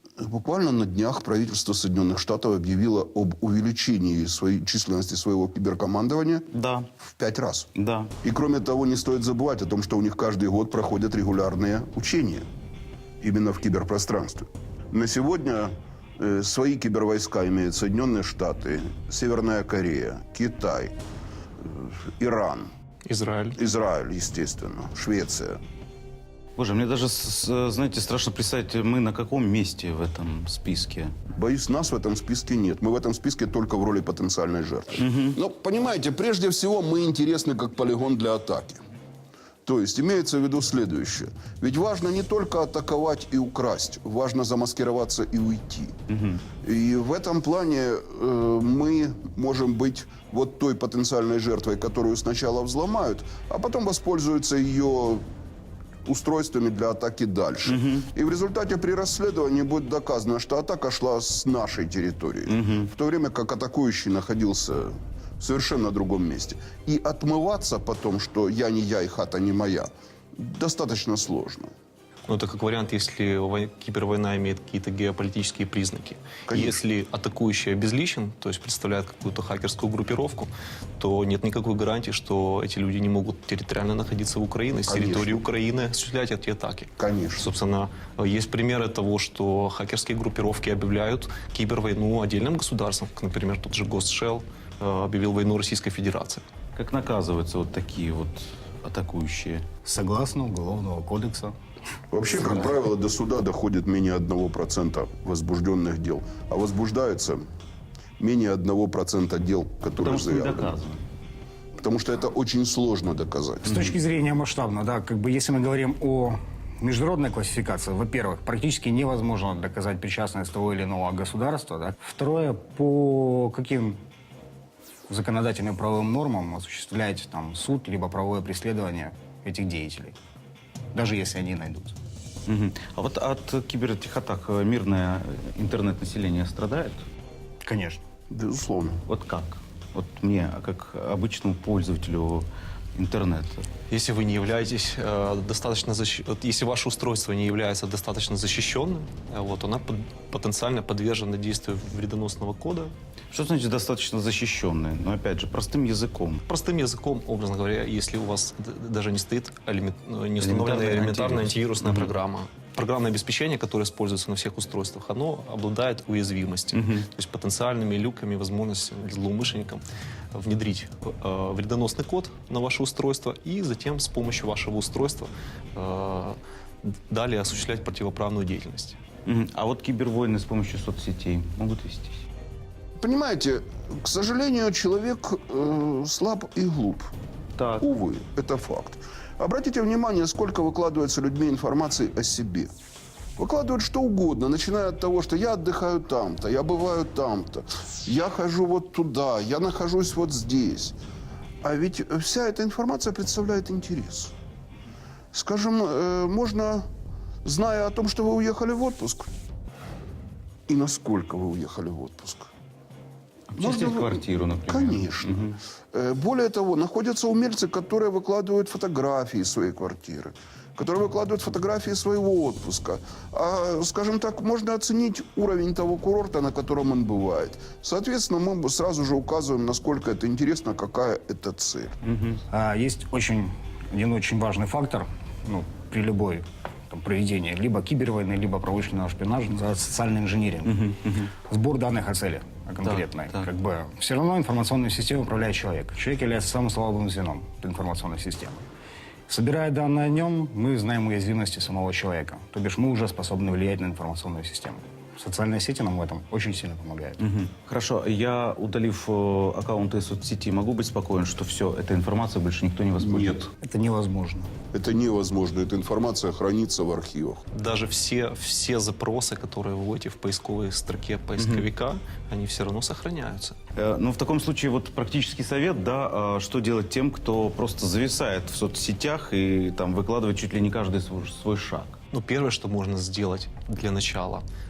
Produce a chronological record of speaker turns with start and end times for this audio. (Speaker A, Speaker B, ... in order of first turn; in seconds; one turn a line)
Speaker A: 0.2-6.5
Speaker B: 6.5-6.9
Speaker A: 7.0-7.7
Speaker B: 7.8-8.1
Speaker A: 8.2-12.5
Speaker A: 13.2-21.0
Speaker A: 21.6-22.7
Speaker C: 23.1-23.6
Speaker A: 23.6-25.6
Speaker B: 26.6-31.1
Speaker A: 31.3-38.8
Speaker B: 35.0-35.4
Speaker A: 39.6-46.0
Speaker B: 46.1-46.4
Speaker A: 46.6-55.2
Speaker A: 56.0-71.7
Speaker B: 57.7-58.1
Speaker B: 62.5-62.9
Speaker C: 72.3-96.4
Speaker A: 76.5-76.8
Speaker A: 84.9-85.4
Speaker A: 87.0-87.5
Speaker B: 96.8-99.6
Speaker D: 99.8-101.6
Speaker A: 102.1-107.5
Speaker D: 102.3-102.7
Speaker A: 108.2-110.8
Speaker B: 110.0-111.0
Speaker A: 111.8-113.9
Speaker D: 113.7-124.0
Speaker D: 125.1-130.2
Speaker D: 130.9-132.0
Speaker B: 132.5-137.1
Speaker D: 137.6-138.0
Speaker A: 138.3-139.0
Speaker B: 139.1-143.7
Speaker C: 143.9-152.9
Speaker B: 153.3-156.4
Speaker C: 156.5-179.0
Speaker B: 160.4-162.1
Speaker B: 166.7-167.1
Speaker B: 179.2-182.2
Speaker A: 183.0-187.1
Speaker B: 187.6-187.9
Speaker A: 187.8-192.7
Speaker A: 193.4-201.0
Speaker A: 201.6-204.3
Speaker A: 205.3-206.9
Speaker A: 207.4-209.3
Speaker A: 210.7-212.5
Speaker B: 213.5-215.6
Speaker A: 213.6-232.0
Speaker B: 232.0-232.4
Speaker D: 232.5-248.6
Speaker B: 240.7-241.3
Speaker B: 242.8-243.5
Speaker D: 249.3-257.2
Speaker B: 257.2-263.5
Speaker A: 263.0-263.4
Speaker D: 263.6-264.5
Speaker A: 264.7-267.4
Speaker C: 267.5-273.6
Speaker B: 271.4-271.7
Speaker B: 273.8-282.0
Speaker C: 282.1-284.4